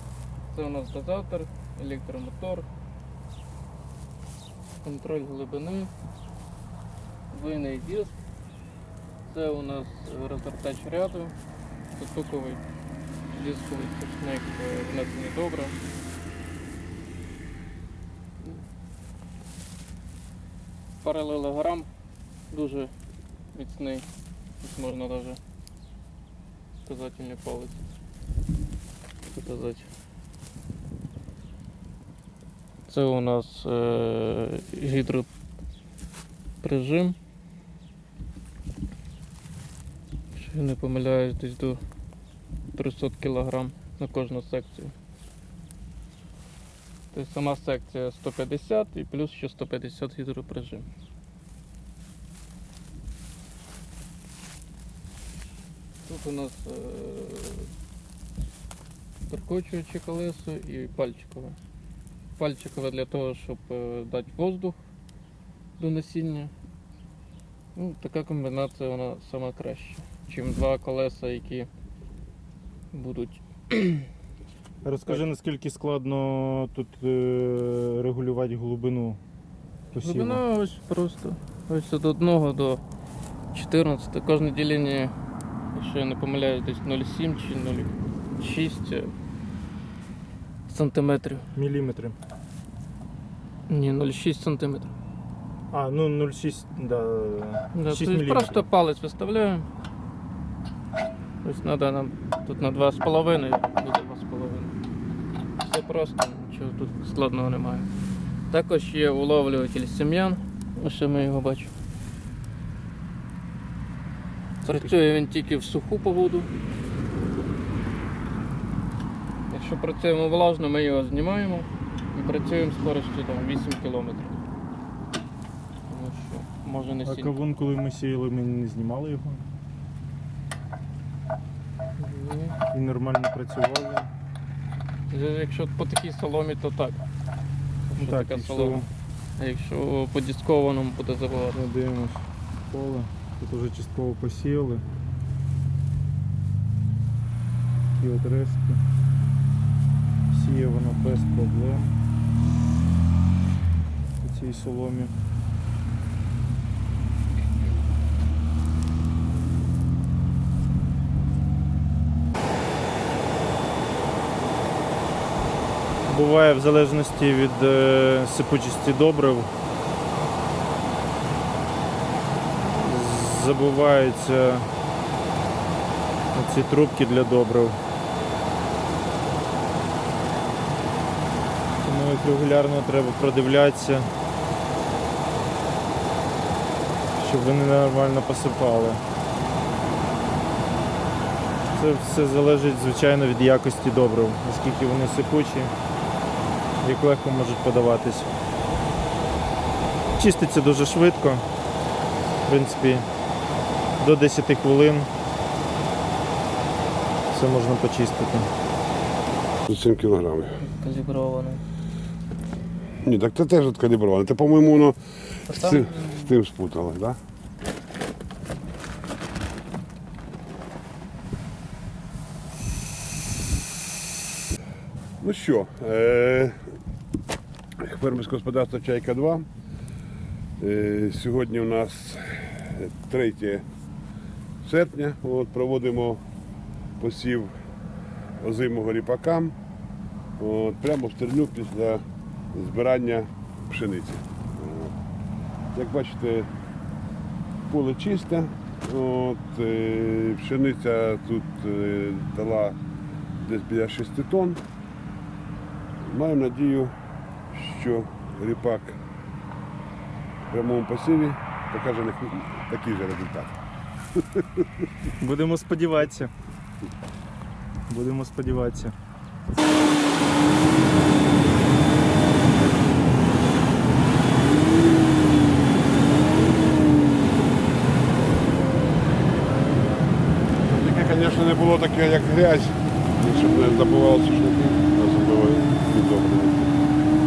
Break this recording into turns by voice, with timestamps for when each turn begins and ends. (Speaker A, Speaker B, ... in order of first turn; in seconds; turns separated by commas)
Speaker A: 0.5-2.7, Speaker A: 4.8-5.9, Speaker A: 7.3-8.1, Speaker A: 9.3-11.3, Speaker A: 11.9-12.6, Speaker A: 13.3-15.8, Speaker A: 21.0-21.9, Speaker A: 22.5-22.9, Speaker A: 23.5-24.1, Speaker A: 24.6-25.4, Speaker A: 26.8-27.8, Speaker A: 29.4-29.9, Speaker A: 32.9-35.3, Speaker A: 36.6-37.2, Speaker A: 40.3-41.8, Speaker A: 42.7-44.9, Speaker A: 47.1-50.9, Speaker A: 56.0-57.7, Speaker A: 59.3-61.6, Speaker A: 62.4-64.8, Speaker A: 65.8-66.5, Speaker A: 67.8-71.7, Speaker A: 72.9-74.1, Speaker B: 74.8-79.2, Speaker B: 79.9-80.4, Speaker A: 80.0-82.8, Speaker A: 83.5-85.1, Speaker A: 85.7-89.1, Speaker A: 90.7-91.5, Speaker B: 91.5-92.2, Speaker A: 93.7-94.9, Speaker B: 95.7-98.6, Speaker A: 97.7-99.7, Speaker A: 101.4-104.7, Speaker A: 105.6-107.9, Speaker A: 108.5-111.7, Speaker A: 114.6-116.5, Speaker A: 119.5-124.3, Speaker A: 125.9-127.4, Speaker B: 127.0-129.4, Speaker A: 132.0-132.6, Speaker B: 132.7-134.1, Speaker A: 135.1-137.0, Speaker A: 137.9-138.9, Speaker B: 137.9-138.9, Speaker A: 139.4-141.6, Speaker B: 141.5-144.8, Speaker B: 148.0-148.8, Speaker B: 150.3-151.9, Speaker B: 154.2-155.1, Speaker B: 166.0-169.5, Speaker B: 172.8-174.7, Speaker B: 176.3-177.8, Speaker B: 181.8-184.1, Speaker B: 187.2-189.0, Speaker B: 191.7-195.7, Speaker B: 196.8-198.3, Speaker B: 200.2-201.4, Speaker B: 202.4-203.1, Speaker B: 204.0-205.1, Speaker B: 207.3-208.5, Speaker C: 209.7-210.6, Speaker A: 210.6-211.6, Speaker C: 213.0-215.0, Speaker C: 215.5-217.2, Speaker A: 215.5-216.3, Speaker C: 225.2-226.6, Speaker C: 227.8-229.5, Speaker C: 230.6-233.6, Speaker C: 234.6-236.2, Speaker C: 237.0-237.5, Speaker C: 238.4-239.5, Speaker C: 240.4-244.9, Speaker C: 245.7-246.5, Speaker C: 247.7-252.8, Speaker C: 253.4-254.6, Speaker C: 256.0-256.9, Speaker C: 257.5-259.0, Speaker C: 260.5-263.5, Speaker B: 265.2-266.3, Speaker B: 267.9-268.9, Speaker C: 280.6-286.7